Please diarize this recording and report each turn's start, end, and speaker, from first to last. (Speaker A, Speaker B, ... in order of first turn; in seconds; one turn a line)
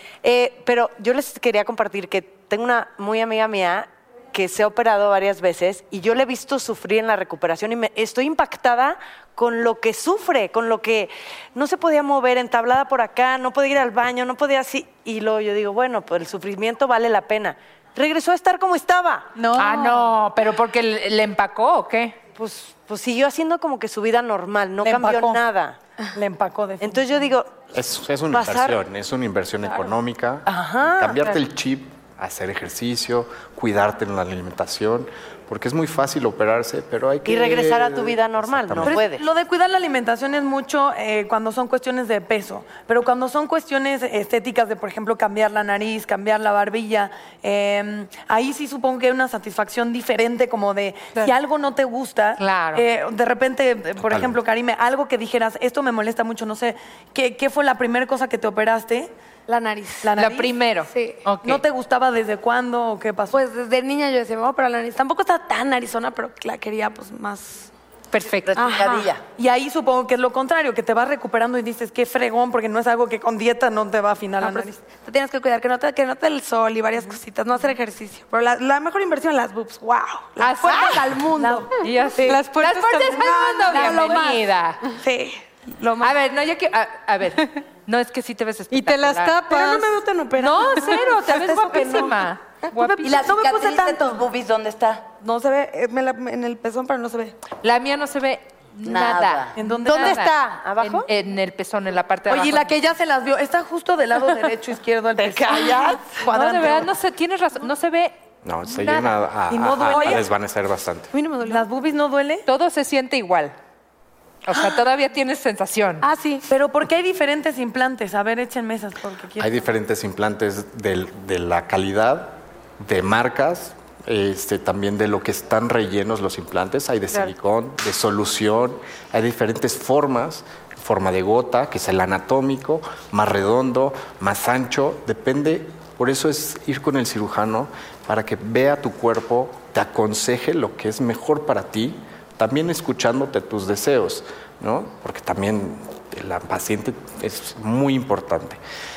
Speaker A: 0.2-19.4
Speaker B: 19.4-20.1
Speaker C: 19.6-22.1
Speaker A: 22.4-25.8
Speaker D: 24.8-25.4
Speaker D: 26.1-27.0
Speaker A: 26.8-27.7
Speaker E: 27.7-39.0
Speaker A: 28.3-28.8
Speaker A: 30.4-31.4
Speaker A: 37.2-39.2
Speaker D: 38.8-59.1
Speaker C: 52.4-52.8
Speaker E: 54.0-54.4
Speaker F: 59.5-60.1
Speaker D: 60.0-60.5
Speaker C: 60.2-61.6
Speaker F: 60.9-61.2
Speaker D: 61.4-63.4
Speaker F: 63.3-67.7
Speaker C: 68.1-68.6
Speaker G: 68.5-69.2
Speaker F: 68.5-69.1
Speaker D: 69.3-74.8
Speaker F: 74.4-82.4
Speaker C: 80.4-84.8
Speaker D: 80.9-81.7
Speaker B: 82.3-83.4
Speaker F: 83.1-86.1
Speaker C: 86.0-89.5
Speaker B: 88.7-90.0
Speaker F: 89.5-91.0
Speaker C: 90.4-93.3
Speaker D: 90.4-92.0
Speaker G: 93.0-95.1
Speaker F: 93.1-94.0
Speaker F: 95.2-97.3
Speaker C: 97.6-102.7
Speaker G: 98.8-99.6
Speaker D: 99.6-100.3
Speaker A: 99.8-101.1
Speaker D: 102.3-106.9
Speaker C: 106.2-108.2
Speaker E: 108.4-111.1
Speaker C: 108.7-109.1
Speaker D: 109.5-110.3
Speaker F: 111.1-111.6
Speaker D: 111.4-112.4
Speaker C: 112.5-113.5
Speaker C: 114.5-116.0
Speaker F: 116.0-116.5
Speaker D: 116.5-119.5
Speaker E: 119.4-148.6